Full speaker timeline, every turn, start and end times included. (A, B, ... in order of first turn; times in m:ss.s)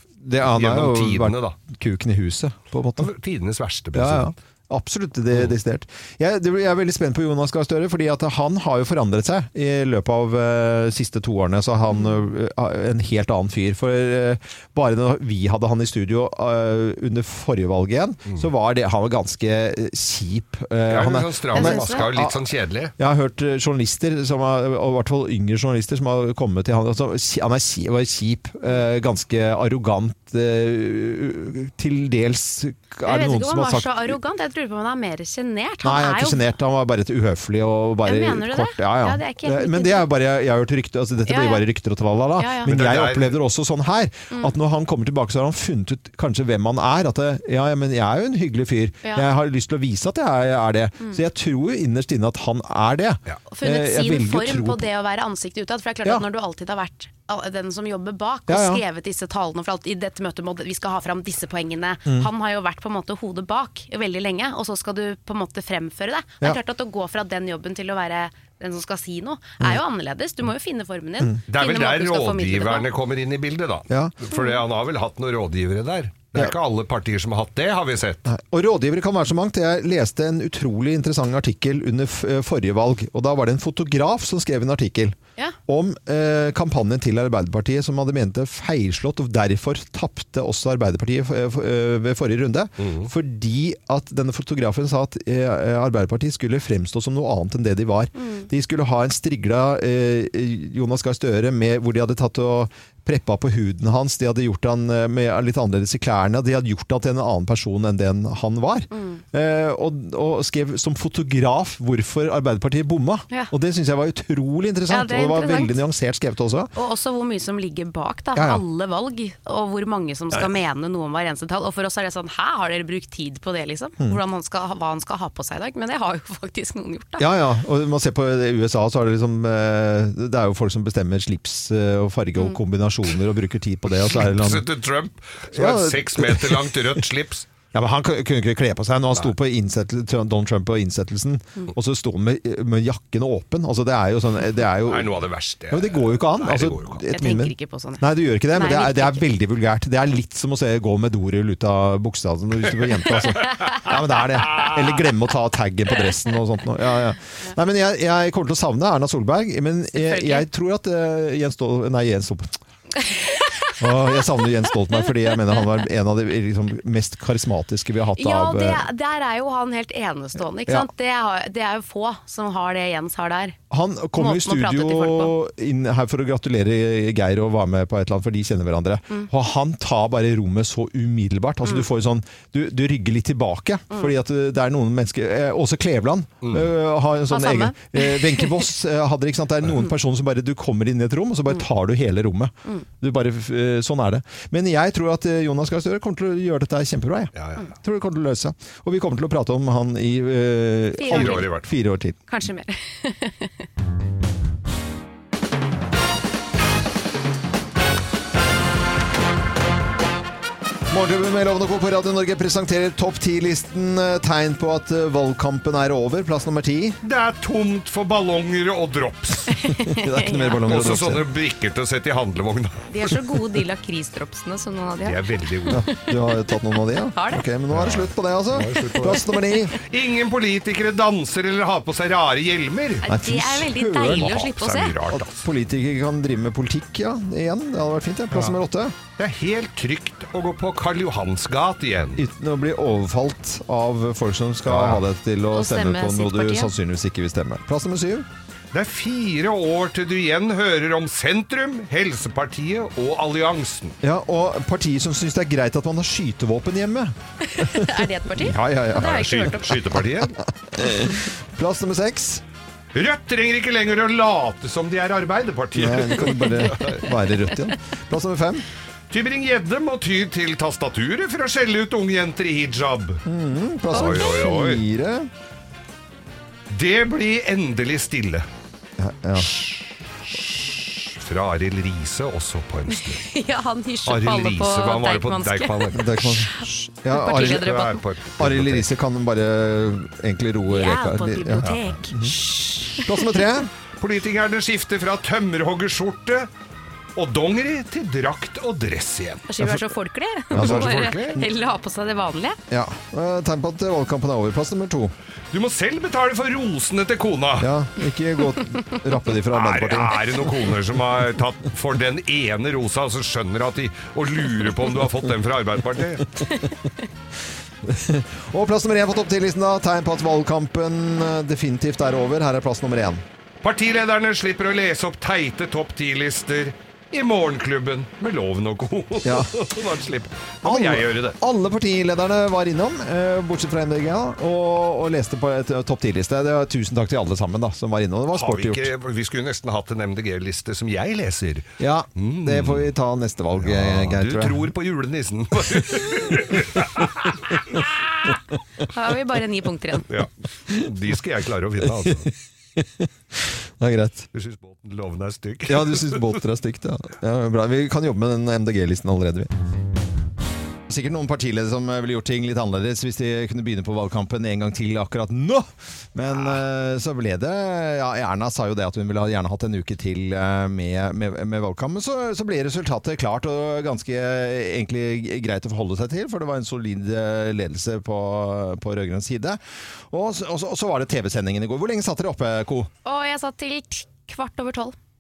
0:00.2-0:03.1 A
0:00.6-0:01.6 B
0:03.0-0:04.4 B
0:03.9-0:22.4 A
0:11.9-0:12.2 C
0:20.9-0:22.9 B
0:21.5-0:22.1 C
0:23.0-0:34.2 A
0:33.0-0:36.6 C
0:35.8-0:54.9 A
0:38.0-0:40.1 C
0:41.3-0:41.6 C
0:42.4-0:42.7 C
0:42.7-0:43.3 B
0:53.5-1:12.9 C
0:58.5-0:58.8 A
1:11.5-1:18.2 B
1:18.3-1:25.2 A
1:25.7-1:56.7 A
1:32.8-1:33.1 B
1:38.2-1:38.5 C
1:48.9-1:49.2 C
1:54.9-1:55.8 C
1:56.8-2:07.3 C
1:58.4-1:58.6 A
2:07.2-2:14.7 A
2:14.0-2:17.5 B
2:15.5-2:17.0 A
2:17.7-2:25.2 A
2:24.9-2:27.0 B
2:25.7-2:42.6 A
2:27.1-2:29.3 C
2:32.7-2:33.8 B
2:40.0-2:40.5 C
2:43.8-2:48.8 A
2:48.2-2:53.6 C
2:53.7-3:22.2 A
2:54.2-2:55.3 C
3:06.4-3:06.7 B
3:07.3-3:08.6 C
3:17.4-3:17.7 B
3:21.0-3:21.5 C
3:21.1-3:21.7 B
3:22.3-3:23.6 C
3:30.9-3:37.0 A
3:37.0-3:39.6 B
3:39.6-3:40.6 C
3:39.8-3:41.3 A
3:40.7-3:43.1 B
3:42.9-3:46.2 C
3:45.0-3:45.8 B
3:45.7-3:49.8 A
3:47.1-3:47.4 C
3:47.7-3:53.0 B
3:49.4-3:49.6 C
3:53.0-3:54.9 C
3:53.1-3:54.4 A
3:54.2-3:55.4 B
3:55.1-3:59.0 A
3:58.3-3:58.6 B
3:59.2-4:02.2 B
4:02.2-4:08.3 A
4:04.7-4:05.0 B
4:05.5-4:06.7 C
4:08.7-4:14.0 B
4:14.0-4:19.3 A
4:17.4-4:19.8 C
4:19.0-4:20.3 B
4:20.2-4:22.4 A
4:23.0-4:27.0 B
4:25.8-4:28.6 A
4:29.1-4:33.2 B
4:33.3-4:35.3 A
4:33.9-4:34.8 B
4:33.9-4:34.4 C
4:36.7-4:38.5 B
4:39.0-4:39.5 A
4:39.4-4:43.3 B
4:42.9-4:48.0 C
4:44.0-4:46.2 B
4:45.9-4:47.7 A
4:47.2-4:48.9 B
4:48.4-4:52.4 A
4:50.7-4:53.3 C
4:53.0-4:53.7 A
4:54.0-4:56.5 B
4:57.2-4:59.5 B
4:59.5-5:02.6 C
5:00.5-5:00.9 A
5:00.5-5:01.4 B
5:02.7-5:05.1 A
5:05.5-5:07.7 B
5:07.6-5:10.7 A
5:09.5-5:16.3 B
5:17.8-5:23.2 A
5:23.6-5:31.4 B
5:29.2-5:29.5 A
5:30.6-5:38.9 A
5:38.3-5:42.9 B
5:41.8-5:44.7 A
5:43.6-5:48.4 B
5:48.9-5:50.1 C
5:50.1-5:52.3 B
5:52.0-5:52.2 A
5:52.8-5:53.1 A
5:53.8-5:54.3 A
5:54.3-5:56.3 B
5:55.7-5:59.5 A
6:00.9-6:22.9 A
6:23.0-6:25.0 C